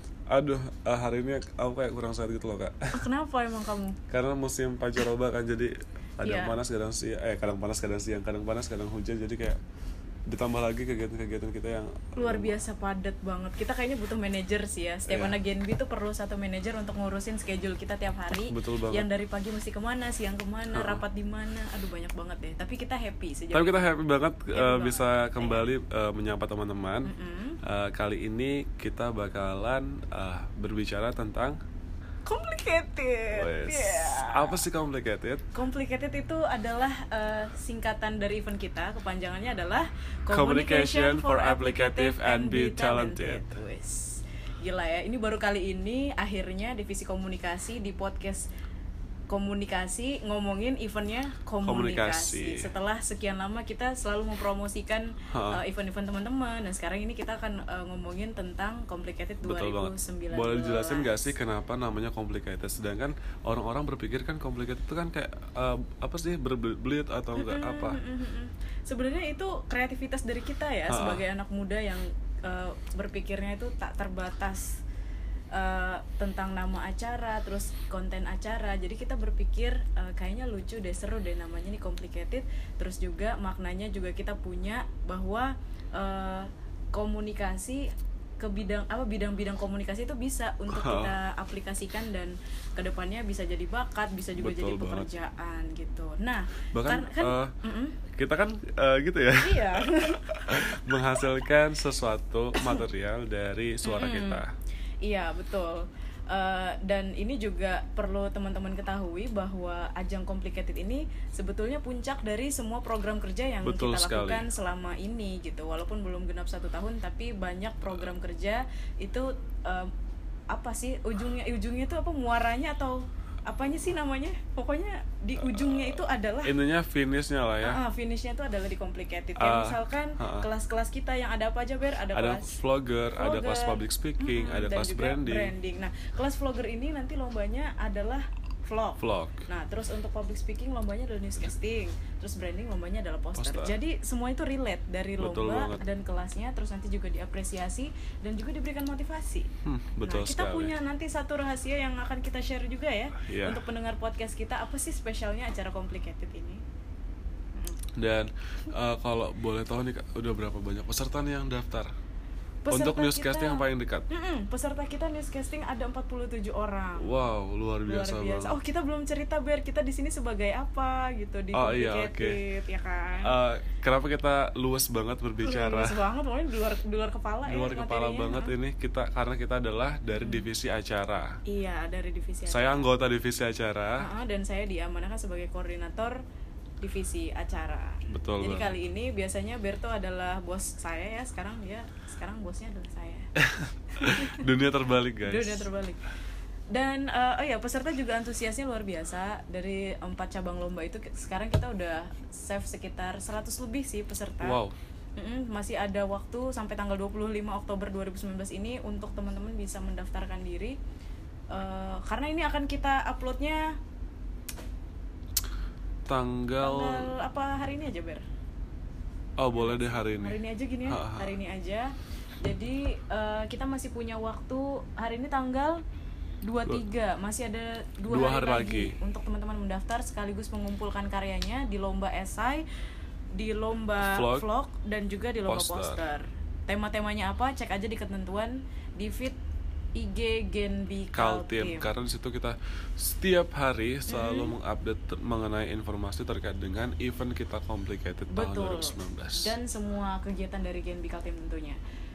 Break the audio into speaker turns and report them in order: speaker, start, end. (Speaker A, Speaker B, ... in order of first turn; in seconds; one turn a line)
Speaker A: 0.3-3.0
Speaker B: 2.9-4.0
Speaker A: 4.1-9.6
Speaker B: 6.2-6.6
Speaker A: 10.3-12.6
Speaker B: 12.1-23.8
Speaker A: 15.1-15.3
Speaker A: 18.4-19.1
Speaker A: 20.7-21.0
Speaker A: 23.5-27.1
Speaker B: 24.5-25.6
Speaker B: 27.0-27.6
Speaker A: 27.6-31.6
Speaker B: 32.2-34.6
Speaker A: 33.3-35.4
Speaker B: 35.5-48.5
Speaker A: 40.3-43.5
Speaker B: 49.3-61.3
Speaker A: 51.6-52.6
Speaker A: 55.3-55.6
Speaker A: 59.4-68.0
Speaker B: 67.3-74.8
Speaker A: 70.9-71.2
Speaker B: 75.5-98.0
Speaker A: 90.7-91.1
Speaker A: 94.3-95.1
Speaker A: 96.7-97.5
Speaker A: 98.1-104.5
Speaker B: 99.4-100.6
Speaker B: 103.8-104.4
Speaker B: 105.0-119.9
Speaker A: 113.6-114.5
Speaker B: 120.5-126.5
Speaker A: 125.4-127.8
Speaker B: 127.6-132.5
Speaker A: 129.3-130.5
Speaker A: 132.1-135.5
Speaker B: 133.2-149.5
Speaker A: 139.0-139.4
Speaker A: 143.4-143.8
Speaker A: 145.2-145.8
Speaker A: 149.6-150.7
Speaker B: 150.0-156.6
Speaker A: 153.2-153.6
Speaker B: 157.5-157.8
Speaker A: 157.9-161.9
Speaker B: 162.6-167.2
Speaker A: 162.7-164.1
Speaker A: 167.0-168.6
Speaker B: 167.8-173.3
Speaker A: 171.5-172.4
Speaker A: 173.2-176.0
Speaker B: 175.4-178.5
Speaker A: 177.5-181.3
Speaker B: 180.2-180.5
Speaker B: 181.4-182.9
Speaker A: 182.5-184.1
Speaker B: 184.0-186.2
Speaker B: 186.8-193.3
Speaker A: 188.1-188.7
Speaker A: 193.4-195.7
Speaker B: 193.9-194.4
Speaker B: 195.2-196.0
Speaker B: 196.7-204.6
Speaker A: 204.4-204.7
Speaker B: 205.2-210.8
Speaker B: 211.5-213.7
Speaker A: 216.1-217.1
Speaker B: 216.6-218.2
Speaker A: 219.4-221.4
Speaker B: 219.6-225.8
Speaker B: 226.4-232.6
Speaker A: 228.1-228.9
Speaker B: 233.3-239.4
Speaker A: 234.0-234.4
Speaker A: 235.4-236.0
Speaker B: 240.0-241.9
Speaker A: 241.1-249.5
Speaker B: 244.1-244.5
Speaker B: 248.3-251.8